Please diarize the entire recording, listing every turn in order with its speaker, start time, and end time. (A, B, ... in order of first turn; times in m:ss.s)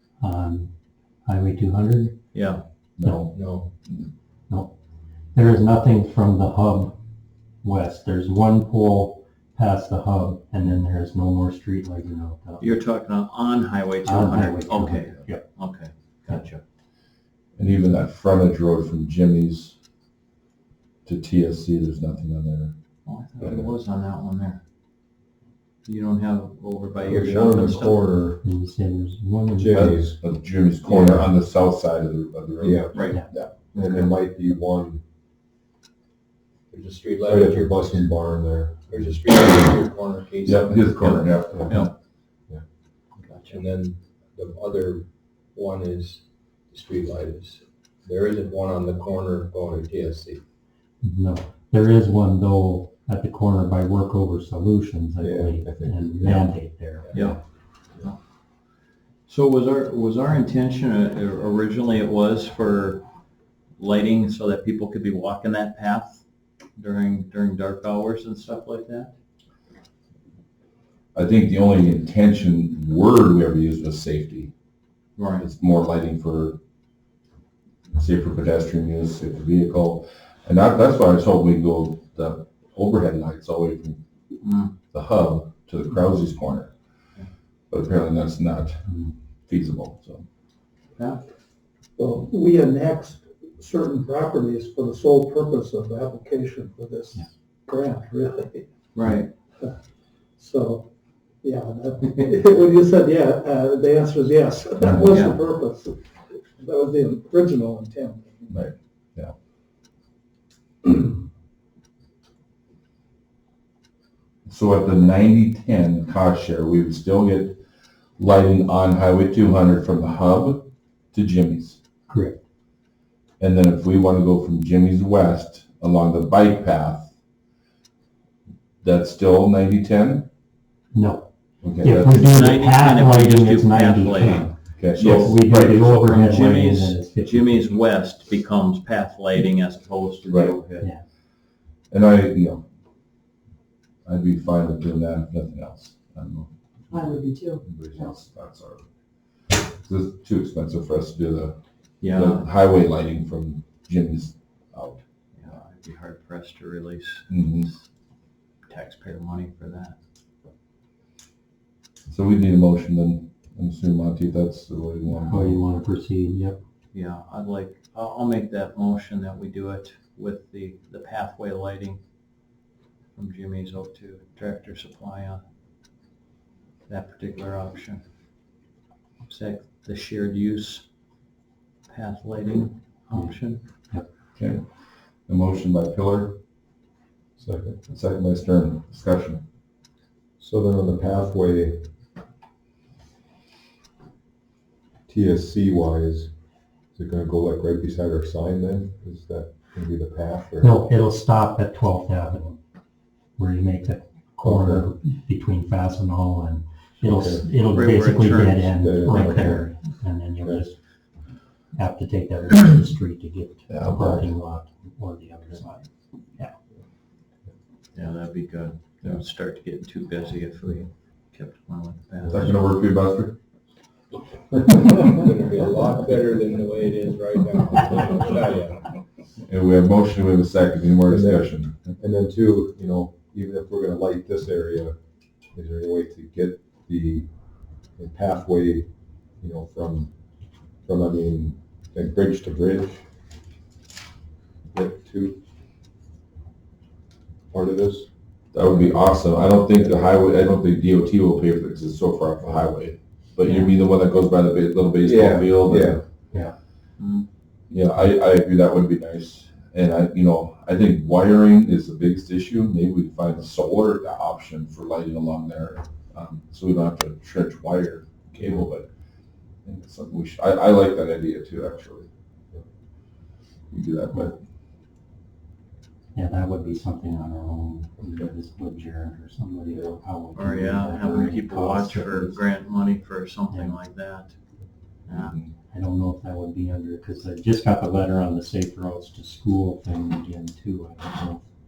0:00.2-0:00.7 A
0:01.2-0:02.2 A
0:02.3-0:02.6 B
0:03.0-0:03.3 C
0:03.3-0:03.7 D
0:05.3-0:07.0 A
0:07.6-0:12.8 A
0:12.6-0:16.6 B
0:14.0-0:15.6 A
0:17.6-0:19.8 C
0:21.0-0:22.7 C
0:23.0-0:24.6 B
0:23.4-0:23.7 E
0:25.8-0:28.0 B
0:27.0-0:28.4 E
0:28.4-0:30.0 A
0:29.6-0:30.2 E
0:29.7-0:33.5 C
0:30.8-0:31.3 E
0:32.6-0:32.9 E
0:32.9-0:33.2 B
0:33.7-0:35.0 E
0:33.7-0:34.1 B
0:36.7-0:38.0 D
0:37.2-0:39.0 E
0:38.9-0:40.9 D
0:40.4-0:41.9 C
0:41.0-0:41.9 B
0:43.2-0:43.6 B
0:43.5-0:50.4 D
0:51.0-0:57.4 A
0:55.2-0:56.5 E
0:57.1-0:57.4 B
0:59.3-1:03.0 B
1:03.8-1:06.2 B
1:06.8-1:09.1 B
1:11.1-1:14.5 C
1:15.2-1:15.4 B
1:15.4-1:16.6 C
1:17.9-1:24.0 C
1:24.4-1:24.7 B
1:24.8-1:26.7 C
1:27.7-1:28.8 C
1:28.9-1:29.1 A
1:29.5-1:30.2 C
1:32.0-1:38.7 F
1:38.9-1:39.3 B
1:40.4-1:40.9 F
1:41.4-1:45.9 F
1:45.1-1:45.4 B
1:46.6-1:48.6 F
1:48.5-1:49.3 C
1:54.5-1:57.6 C
1:58.2-2:01.8 C
2:02.1-2:02.4 A
2:03.4-2:07.1 C
2:08.8-2:10.3 C
2:10.9-2:11.3 A
2:11.6-2:12.3 C
2:11.8-2:17.6 A
2:12.2-2:15.3 B
2:14.8-2:16.1 C
2:15.9-2:20.9 B
2:20.3-2:20.5 C
2:20.7-2:21.0 A
2:21.9-2:22.6 C
2:24.0-2:28.8 C
2:29.5-2:35.0 C
2:32.0-2:32.5 B
2:35.4-2:37.8 B
2:37.3-2:37.7 C
2:38.7-2:40.0 B
2:42.1-2:45.6 C
2:45.1-2:46.6 A
2:46.9-2:52.0 B
2:53.1-2:55.4 B
2:56.9-2:58.0 B
2:59.3-3:00.8 B
3:01.9-3:03.6 B
3:04.4-3:04.6 C
3:05.3-3:06.4 C
3:07.4-3:07.8 E
3:07.9-3:09.4 C
3:10.4-3:11.8 E
3:15.1-3:16.3 E
3:17.0-3:20.7 E
3:20.6-3:22.6 A
3:23.4-3:30.7 A
3:24.4-3:24.9 E
3:27.0-3:27.5 E
3:27.7-3:29.5 B
3:28.8-3:29.7 E
3:31.7-3:36.5 A
3:33.7-3:34.0 C
3:33.9-3:34.3 E
3:37.9-3:42.6 B
3:42.3-3:43.4 C
3:44.6-3:48.8 D
3:49.4-3:51.9 C
3:51.1-3:54.9 E
3:55.5-3:57.3 E
3:58.0-3:58.9 E
3:59.4-4:00.1 E
4:00.8-4:03.0 E
4:04.7-4:05.4 E
4:07.5-4:08.1 E
4:08.5-4:16.1 C
4:15.0-4:16.4 E
4:17.0-4:17.3 B
4:17.7-4:28.9 C
4:29.6-4:32.1 C
4:33.7-4:34.4 C
4:36.1-4:42.4 A
4:40.3-4:44.3 B
4:43.5-4:43.8 A
4:45.1-4:45.4 B
4:45.1-4:45.5 C
4:45.7-4:51.4 A